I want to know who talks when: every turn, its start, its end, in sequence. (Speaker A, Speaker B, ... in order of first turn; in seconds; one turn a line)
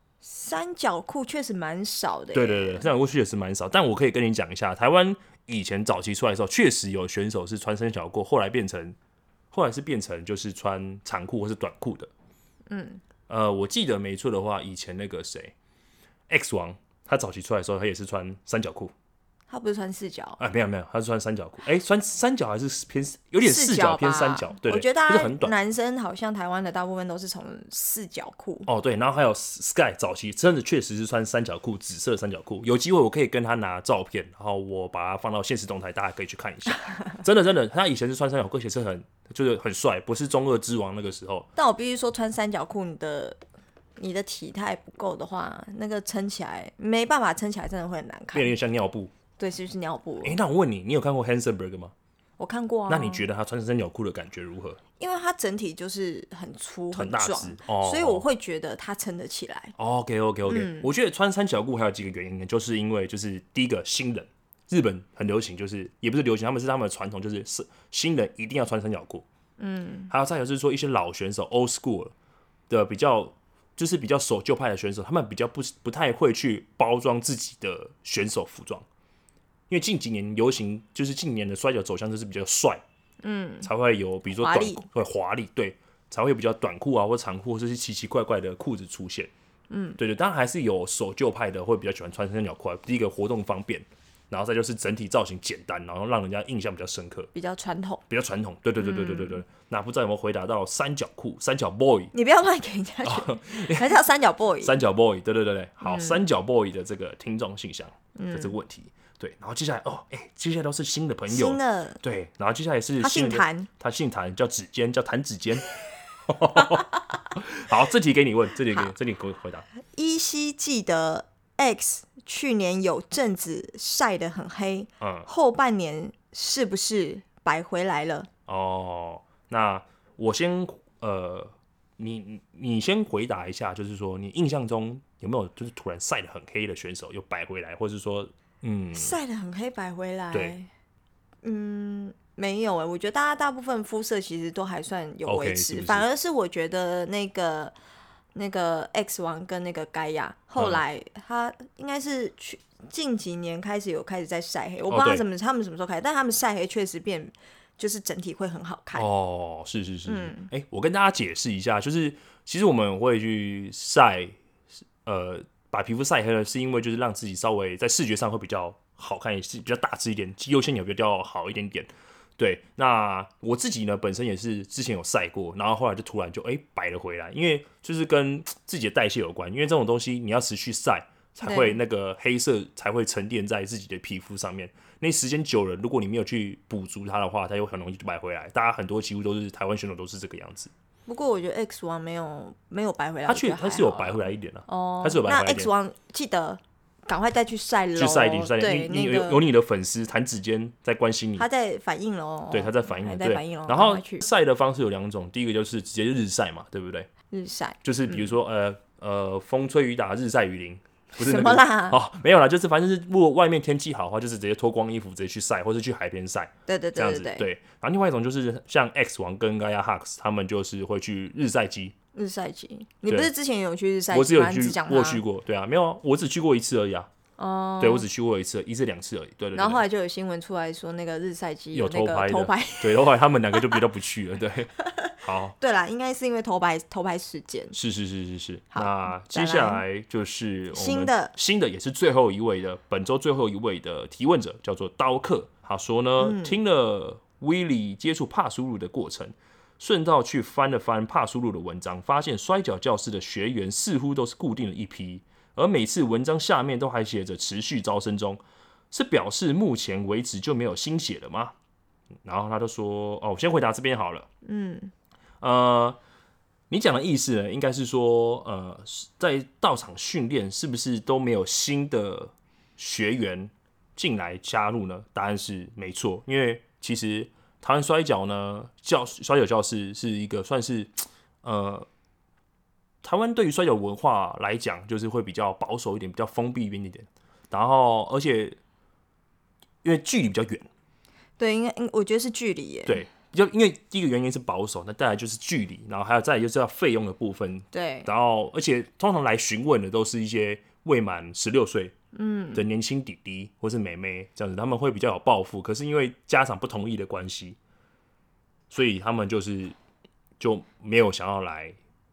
Speaker A: 0.2-2.9
Speaker B: 2.3-9.0
Speaker B: 9.5-12.1
Speaker A: 12.7-13.0
Speaker B: 13.3-15.5
Speaker B: 16.3-18.9
Speaker A: 19.5-20.4
Speaker B: 20.4-25.5
Speaker A: 23.4-28.7
Speaker B: 28.7-41.5
Speaker A: 41.6-43.4
Speaker A: 44.0-48.5
Speaker B: 48.3-49.1
Speaker A: 49.4-50.4
Speaker B: 50.2-51.9
Speaker A: 52.4-53.3
Speaker B: 52.9-54.8
Speaker A: 55.0-59.8
Speaker B: 56.9-58.2
Speaker B: 59.8-69.2
Speaker A: 60.5-60.9
Speaker A: 69.6-70.1
Speaker B: 70.1-72.1
Speaker B: 72.7-78.8
Speaker B: 79.7-82.8
Speaker A: 83.2-83.7
Speaker B: 83.6-89.3
Speaker A: 84.4-84.8
Speaker A: 89.7-90.0
Speaker B: 90.0-97.3
Speaker A: 97.3-98.0
Speaker B: 98.1-102.1
Speaker A: 98.8-99.4
Speaker A: 102.1-104.8
Speaker B: 103.0-104.0
Speaker B: 104.6-115.7
Speaker A: 105.8-106.2
Speaker A: 108.2-108.5
Speaker A: 111.3-112.0
Speaker A: 113.0-113.7
Speaker B: 116.3-119.7
Speaker A: 119.9-128.3
Speaker B: 125.0-125.3
Speaker B: 128.5-139.2
Speaker A: 138.9-140.7
Speaker A: 141.4-147.7
Speaker B: 145.2-146.1
Speaker A: 148.3-159.1
Speaker B: 154.9-155.2
Speaker B: 158.9-164.3
Speaker A: 160.1-160.5
Speaker B: 165.0-190.7
Speaker A: 181.4-181.8
Speaker A: 191.1-199.4
Speaker B: 193.3-195.7
Speaker B: 198.0-201.4
Speaker A: 201.4-204.3
Speaker B: 202.5-207.1
Speaker A: 207.3-208.3
Speaker B: 207.8-221.9
Speaker A: 211.2-212.0
Speaker A: 216.7-217.5
Speaker A: 222.2-225.2
Speaker B: 224.1-227.1
Speaker A: 227.4-228.1
Speaker B: 227.8-229.8
Speaker A: 229.6-233.8
Speaker B: 231.7-235.6
Speaker A: 234.9-237.8
Speaker B: 237.7-258.4
Speaker A: 238.7-239.8
Speaker A: 240.7-241.3
Speaker A: 246.2-246.6
Speaker B: 258.9-261.5
Speaker B: 262.2-264.3
Speaker A: 264.4-264.9
Speaker B: 265.4-266.0
Speaker B: 266.7-281.9
Speaker B: 283.0-288.6
Speaker B: 289.8-290.7
Speaker A: 291.4-293.1
Speaker B: 292.9-301.9
Speaker A: 297.7-298.1
Speaker A: 302.1-302.6
Speaker B: 302.6-307.6
Speaker B: 308.7-309.8
Speaker B: 310.4-311.8